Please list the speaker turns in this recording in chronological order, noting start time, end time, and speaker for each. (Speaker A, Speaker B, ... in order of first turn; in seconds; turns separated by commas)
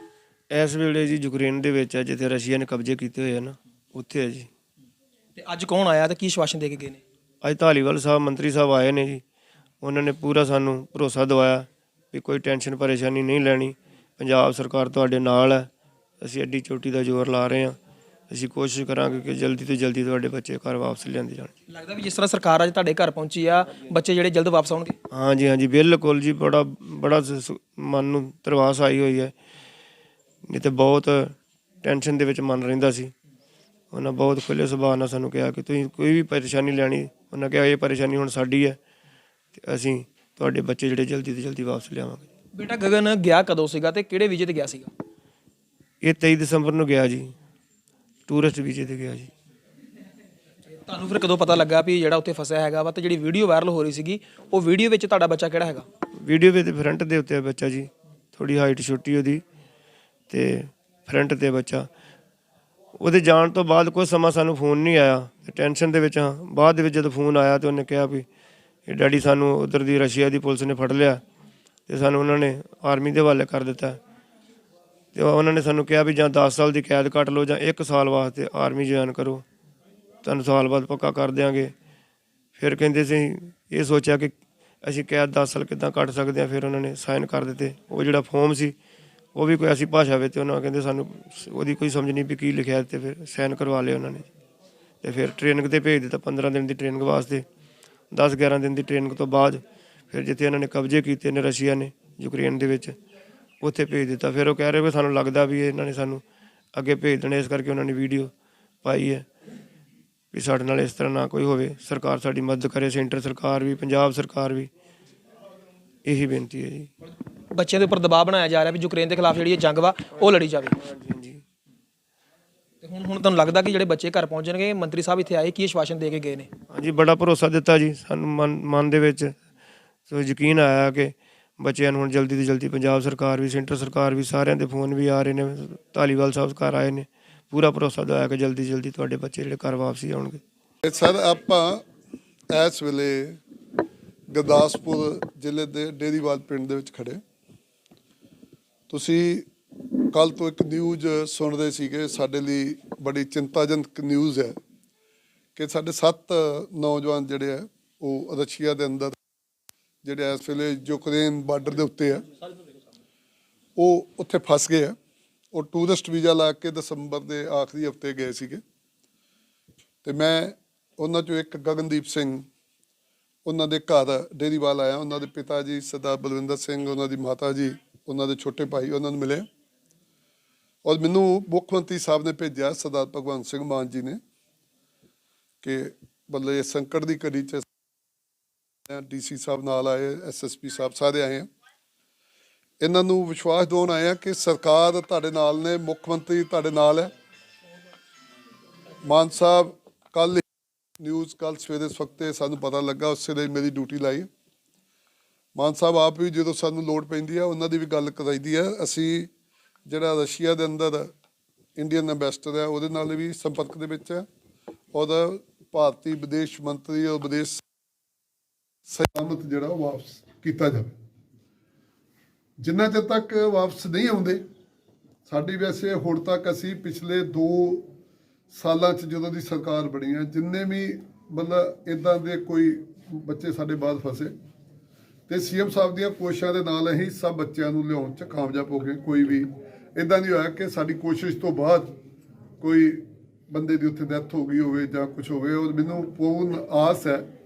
Speaker A: 0.5-4.5, Speaker B: 5.4-7.0, Speaker A: 7.4-9.2, Speaker A: 9.8-15.7, Speaker A: 16.2-17.8, Speaker A: 18.3-21.5, Speaker B: 21.7-25.0, Speaker A: 25.1-29.3, Speaker A: 30.5-33.1, Speaker A: 33.9-38.8, Speaker A: 39.6-42.3, Speaker B: 42.5-44.9, Speaker A: 46.0-47.3, Speaker A: 48.3-49.3, Speaker B: 50.8-55.9, Speaker A: 56.2-59.4, Speaker A: 60.3-61.9, Speaker A: 63.0-68.3, Speaker A: 68.9-71.2, Speaker A: 71.9-74.0, Speaker A: 75.1-79.4, Speaker A: 80.2-81.7, Speaker A: 82.6-88.8, Speaker A: 89.3-94.3, Speaker A: 95.0-97.5, Speaker A: 98.1-103.0, Speaker A: 103.6-106.2, Speaker A: 106.7-108.3, Speaker A: 108.8-109.3, Speaker A: 110.3-114.7, Speaker A: 116.0-116.9, Speaker B: 117.5-120.8, Speaker A: 120.8-121.4, Speaker B: 122.8-126.5, Speaker A: 126.7-129.4, Speaker A: 130.1-140.4, Speaker C: 140.8-141.8, Speaker C: 142.5-143.4, Speaker C: 144.3-147.2, Speaker C: 148.9-149.5, Speaker C: 150.1-154.6, Speaker C: 155.6-159.2, Speaker C: 160.0-162.3, Speaker C: 163.8-165.0, Speaker C: 165.5-168.6, Speaker C: 170.0-172.5, Speaker C: 173.4-179.4, Speaker C: 180.8-184.2, Speaker C: 185.6-187.7, Speaker C: 188.9-191.5, Speaker C: 192.8-197.1, Speaker C: 199.0-200.4, Speaker C: 201.0-204.3, Speaker C: 205.6-209.3, Speaker C: 209.9-211.1, Speaker C: 211.8-214.3, Speaker C: 214.9-217.6, Speaker C: 218.9-220.9, Speaker C: 222.6-224.4, Speaker C: 225.3-227.9, Speaker C: 228.5-234.3, Speaker C: 235.3-241.9, Speaker C: 242.6-247.3